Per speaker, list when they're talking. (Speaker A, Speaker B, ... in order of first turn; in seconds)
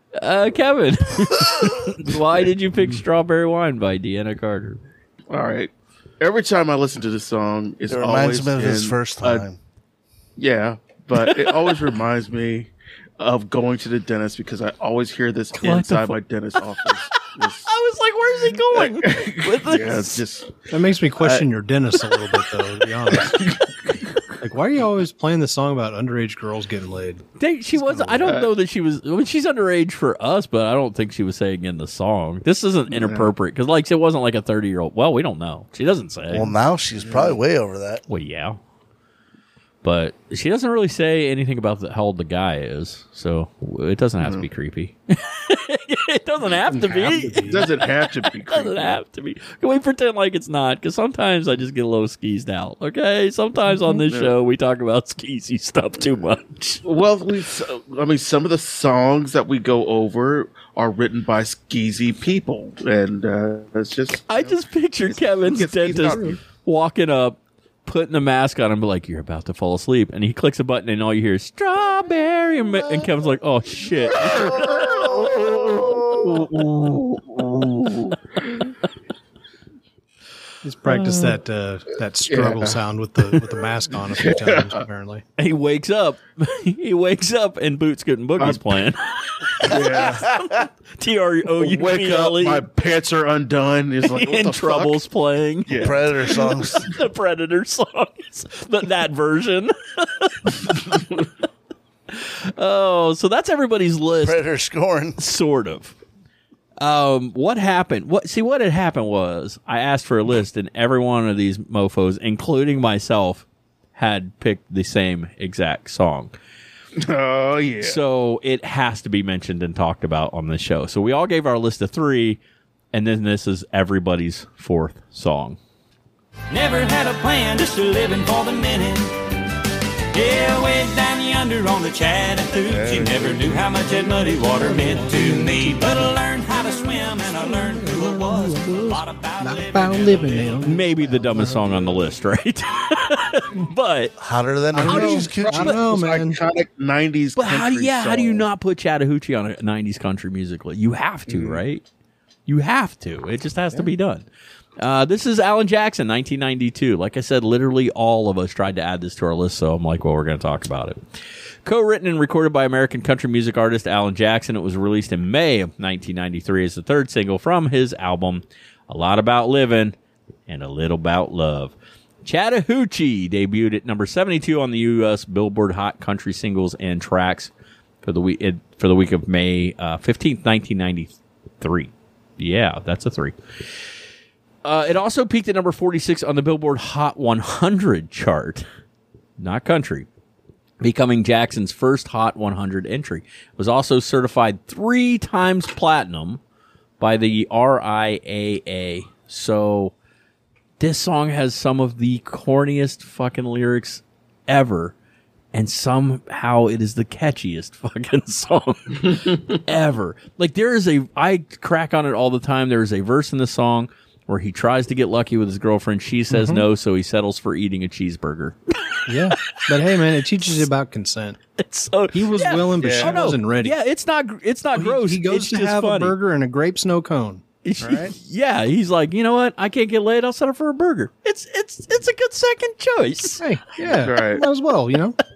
Speaker A: 0.2-4.8, 11.2-11.6, 15.6-16.2, 17.1-20.2, 27.4-36.5, 38.1-38.6, 39.8-56.8, 64.3-75.1, 80.9-81.4, 85.4-92.7, 94.0-101.1, 102.1-104.4, 105.2-106.0, 106.8-116.3, 117.8-122.4, 122.9-125.6, 140.6-144.2, 147.3-151.8, 152.5-154.3, 154.8-170.0, 170.5-177.5, 178.0-183.4, 184.6-188.7, 189.4-190.1, 190.8-196.4, 197.0-199.9, 200.8-204.9, 205.5-218.6, 219.3-219.6, 221.6-226.2, 227.6-233.4
Speaker B: 5.3-9.4, 10.4-17.7, 18.7-20.7, 21.2-21.5, 23.1-23.7, 28.2-28.5, 32.9-33.3, 37.0-37.4, 47.5-49.0, 54.1-54.3, 56.8-66.4, 74.2-78.7, 82.3-82.8, 84.2-84.8, 89.6-90.3, 91.6-95.0, 95.7-96.5, 117.0-118.0, 132.7-134.8, 144.8-148.4, 151.3-151.6, 222.8-223.2, 233.8-234.4
Speaker C: 7.9-9.6, 27.8-28.4, 36.3-38.0, 74.3-76.3, 95.8-96.9, 104.2-105.2, 144.2-145.8
Speaker D: 20.7-23.4, 24.4-27.2, 46.7-47.7, 80.6-85.2, 134.6-136.1, 137.5-142.0, 144.7-146.4, 216.3-216.7, 219.1-221.4, 222.1-223.7, 224.8-228.1, 233.4-235.2
Speaker E: 126.5-129.2, 130.1-140.8